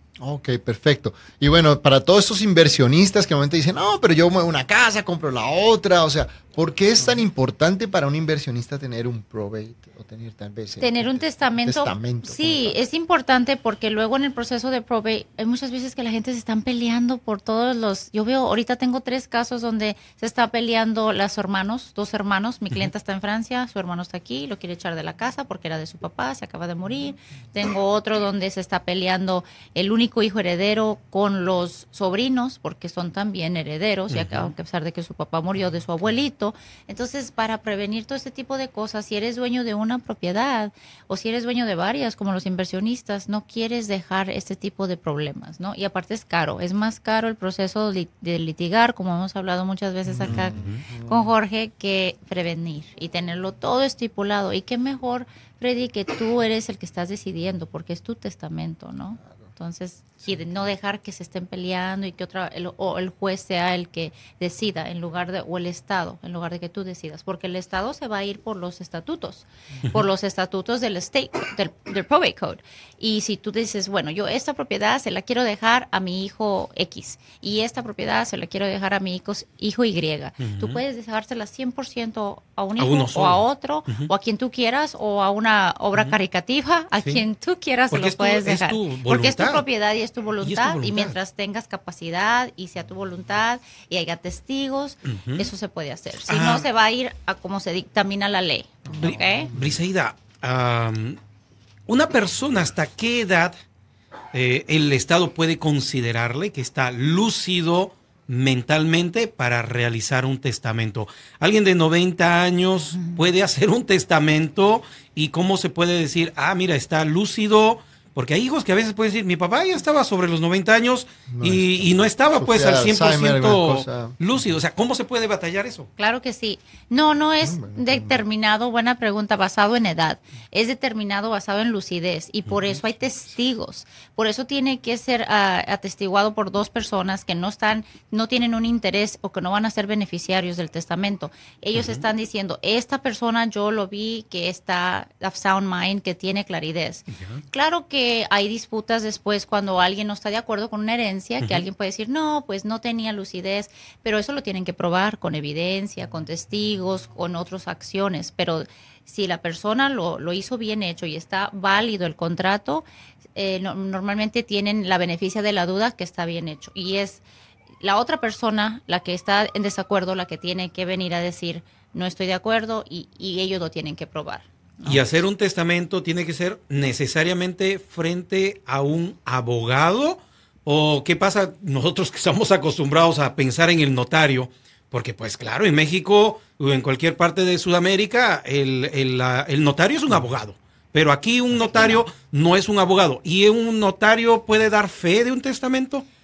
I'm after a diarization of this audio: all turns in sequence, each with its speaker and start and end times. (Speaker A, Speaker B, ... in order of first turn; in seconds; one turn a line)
Speaker A: 0.2-12.8
Speaker B: 10.8-99.5
Speaker C: 34.1-34.5
Speaker C: 50.1-50.8
Speaker A: 50.2-51.3
Speaker C: 80.4-80.8
Speaker C: 82.8-84.1
Speaker C: 87.9-89.7
Speaker C: 90.4-91.2
Speaker C: 95.1-95.5
Speaker C: 96.3-96.7
Speaker A: 98.9-99.8
Speaker C: 99.0-101.2
Speaker C: 101.9-103.6
Speaker C: 104.3-125.9
Speaker A: 121.3-124.2
Speaker B: 126.0-167.2
Speaker A: 127.4-128.2
Speaker C: 132.5-132.8
Speaker C: 141.7-142.0
Speaker C: 147.1-147.4
Speaker B: 167.8-175.2
Speaker C: 174.8-196.0
Speaker B: 191.6-192.0